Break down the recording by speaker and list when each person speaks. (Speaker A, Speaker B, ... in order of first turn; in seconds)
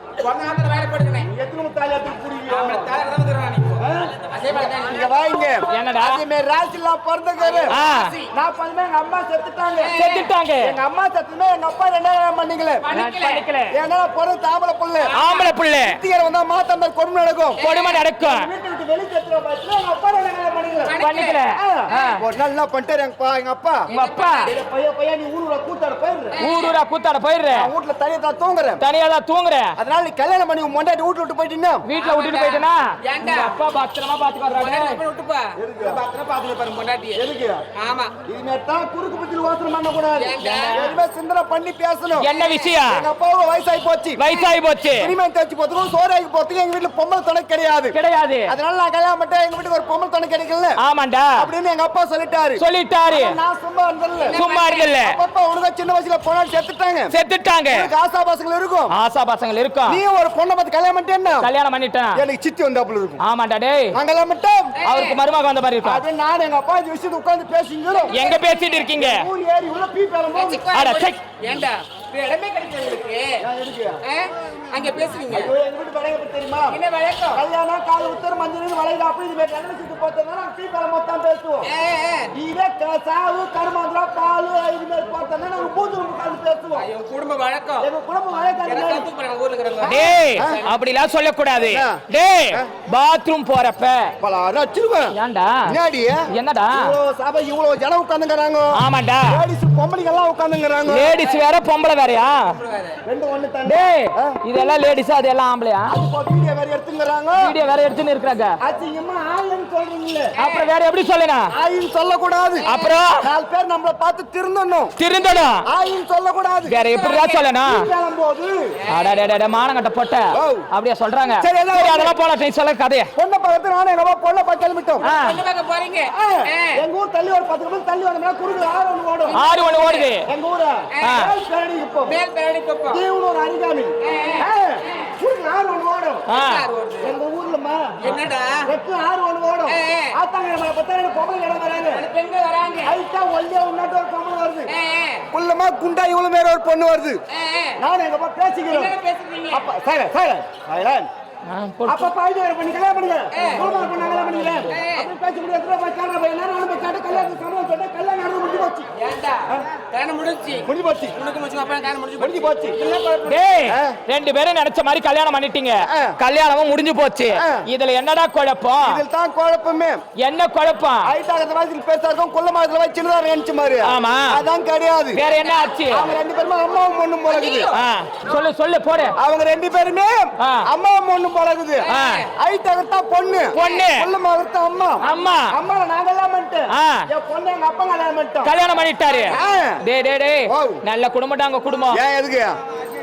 Speaker A: 0.2-1.3, 2.5-5.1, 7.4-8.3, 9.8-10.3, 12.8-13.5, 15.0-15.6, 17.6-18.0, 20.8-22.1, 23.9-24.6, 26.3-26.7, 31.9-33.5, 34.5-37.2, 37.8-38.1, 40.1-40.8, 42.3-42.8, 54.2-54.9, 64.8-65.2, 67.9-68.8, 70.3-73.4, 74.0-75.5, 76.7-77.4, 81.6-82.3, 86.7-87.9, 88.6-90.7, 102.5-103.0, 110.4-110.7, 112.6-113.0, 116.9-117.5, 118.8-119.2, 125.0-126.8, 129.2-130.1, 132.0-133.0, 134.0-135.1, 136.3-137.1, 138.0-138.7, 139.7-140.2, 141.9-142.9, 144.7-145.3, 147.3-147.8, 148.7-149.6, 153.3-153.7, 154.7-155.1, 159.0-163.3, 175.4-175.7, 177.3-177.8, 181.8-182.3, 183.6-183.8
Speaker B: 1.2-3.0, 3.8-7.8, 8.3-10.0, 10.6-12.8, 13.7-15.1, 15.8-17.6, 18.2-20.9, 21.5-23.9, 24.4-26.4, 27.5-28.8, 29.8-31.8, 35.5-36.0, 37.1-37.6, 38.2-42.3, 42.9-44.2, 45.0-48.0, 48.5-50.8, 51.4-54.4, 55.0-57.1, 57.7-58.9, 59.9-61.5, 62.1-63.2, 63.9-64.7, 65.8-68.2, 68.9-70.7, 73.4-74.0, 75.3-76.8, 77.3-81.7, 82.3-86.9, 87.8-89.1, 89.8-90.6, 91.6-92.7, 94.2-95.1, 95.7-98.7, 99.3-101.2, 103.0-104.3, 105.9-107.5, 108.6-110.3, 111.5-112.7, 113.2-114.9, 115.7-116.8, 117.7-118.7, 120.3-120.7, 121.3-122.2, 123.2-125.1, 126.1-129.4, 130.2-132.2, 132.9-136.3, 137.0-138.1, 138.6-142.1, 142.8-144.7, 145.3-147.2, 147.8-148.9, 149.5-151.1, 151.8-158.9, 160.6-161.2, 162.2-162.8, 163.6-164.0, 165.8-166.2, 167.3-167.7, 168.8-170.0, 171.0-175.2, 175.9-177.7, 179.2-181.8, 182.4-188.5, 189.3-189.8, 190.5-190.8, 191.9-192.6
Speaker C: 5.7-6.2, 7.7-8.1, 9.9-10.8, 12.9-13.8, 15.1-16.0, 17.6-18.5, 21.0-22.2, 23.9-24.5, 26.4-27.7, 28.8-29.8, 31.8-35.0, 40.4-40.9, 42.2-43.1, 44.2-45.1, 47.9-48.5, 50.8-51.5, 52.6-53.4, 54.3-55.2, 57.1-57.9, 58.9-60.0, 61.4-62.2, 63.2-64.0, 64.8-66.0, 68.1-69.3, 70.7-71.2, 89.8-94.1, 95.1-95.7, 96.3-96.9, 98.7-99.4, 100.9-102.5, 103.6-105.9, 107.4-108.5, 110.4-111.5, 112.6-113.2, 115.0-115.7, 116.7-117.8, 118.9-123.1, 125.0-125.4, 129.3-130.3, 131.0-131.3, 136.3-136.6, 151.4-152.1, 153.5-154.7, 163.3-169.0, 170.2-171.1, 173.8-174.4, 175.1-176.1, 177.7-179.2, 180.4-180.7, 181.9-182.2, 183.5-184.1, 185.0-185.5, 186.7-187.1, 188.4-192.0